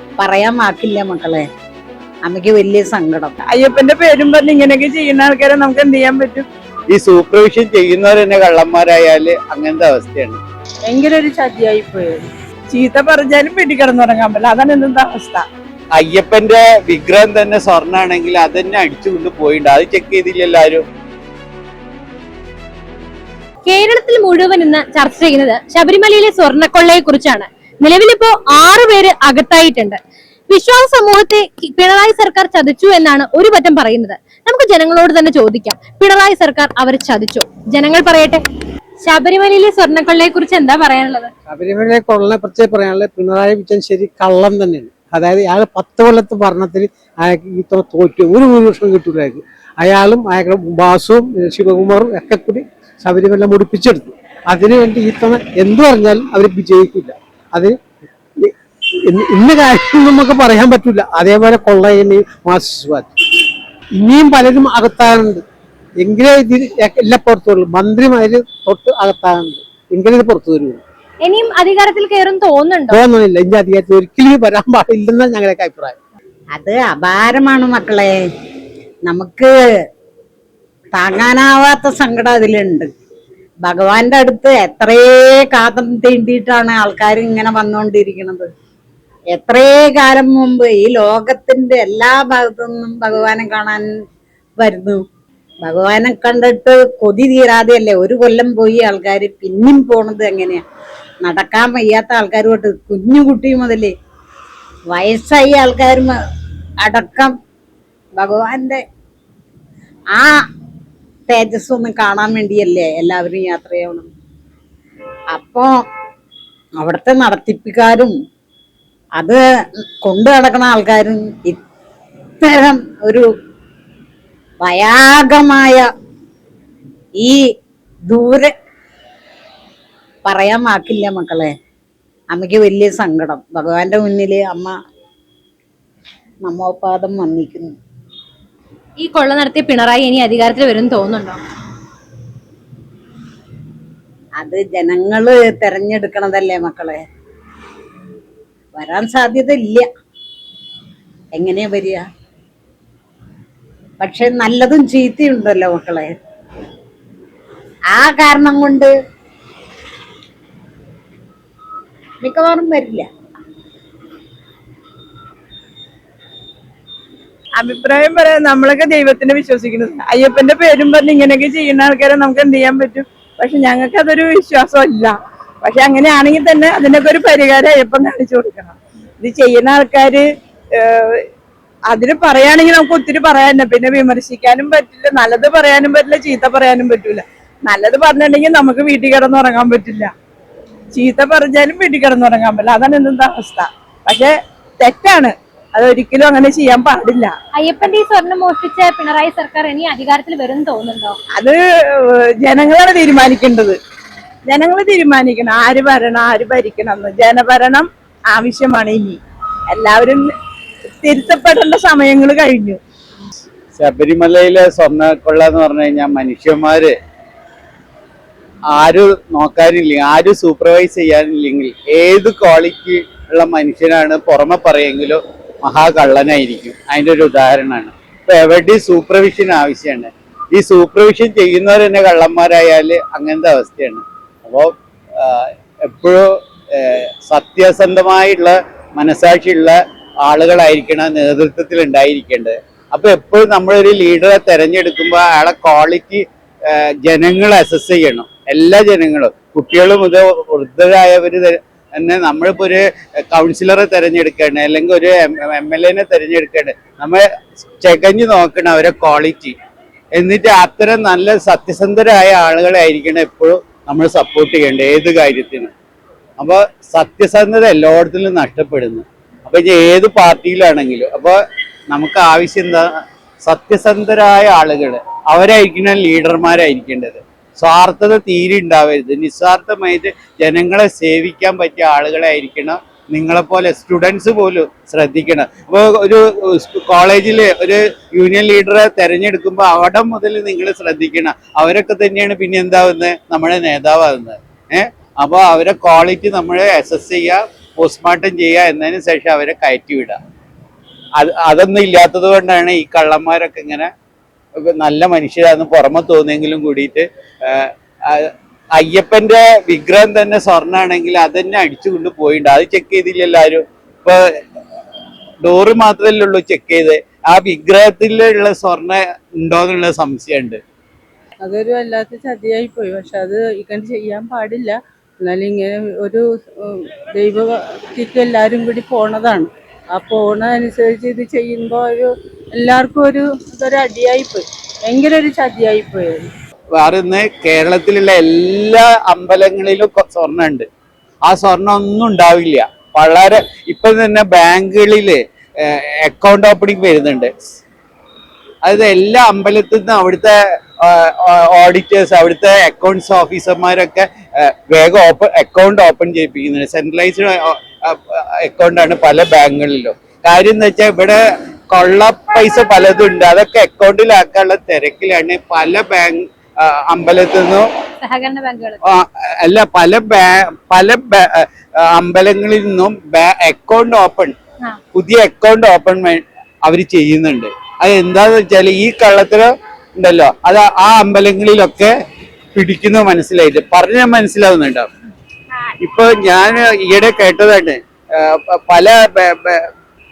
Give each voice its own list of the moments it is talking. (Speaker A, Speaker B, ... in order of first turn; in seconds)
Speaker A: 0.2-1.4, 2.2-3.4, 76.5-78.1, 79.1-79.5, 80.9-82.9, 83.6-88.5, 89.3-93.9, 94.6-95.0, 95.6-100.6, 101.2-103.9, 104.9-106.2, 106.8-107.3, 108.2-108.8, 110.1-110.4, 111.3-114.1, 115.3-115.7, 116.8-118.1, 119.2-121.6, 122.4-123.2, 124.6-125.9, 128.1-128.5, 130.2-131.5, 132.3-134.7, 136.4-137.7, 144.4-147.0, 148.8-149.8, 151.3-152.0, 154.0-156.1, 157.9-158.9, 162.2-163.1
Speaker B: 3.5-6.5, 12.7-15.4, 167.6-180.2, 180.8-181.2, 181.9-190.1, 190.9-197.3, 201.3-203.8, 204.5-209.2, 209.7-210.3, 211.0-212.8
Speaker C: 6.9-10.4, 16.0-20.8, 213.8-216.9, 218.7-257.2, 257.8-259.5, 260.1-265.7, 266.4-271.4, 271.9-272.8, 273.4-300.2, 301.2-303.9, 304.6-314.2, 315.4-320.6, 336.8-340.7, 341.3-347.6, 348.6-361.2, 361.7-367.7, 368.9-374.3, 374.9-381.9, 382.5-384.9, 385.8-389.7
Speaker D: 10.9-12.3, 321.4-336.3
Speaker E: 23.6-38.4, 39.0-41.3, 71.2-73.0, 139.0-141.4, 197.5-201.2, 368.0-368.8
Speaker F: 41.5-57.8, 59.0-63.1, 64.0-65.4, 66.0-70.8, 72.9-76.0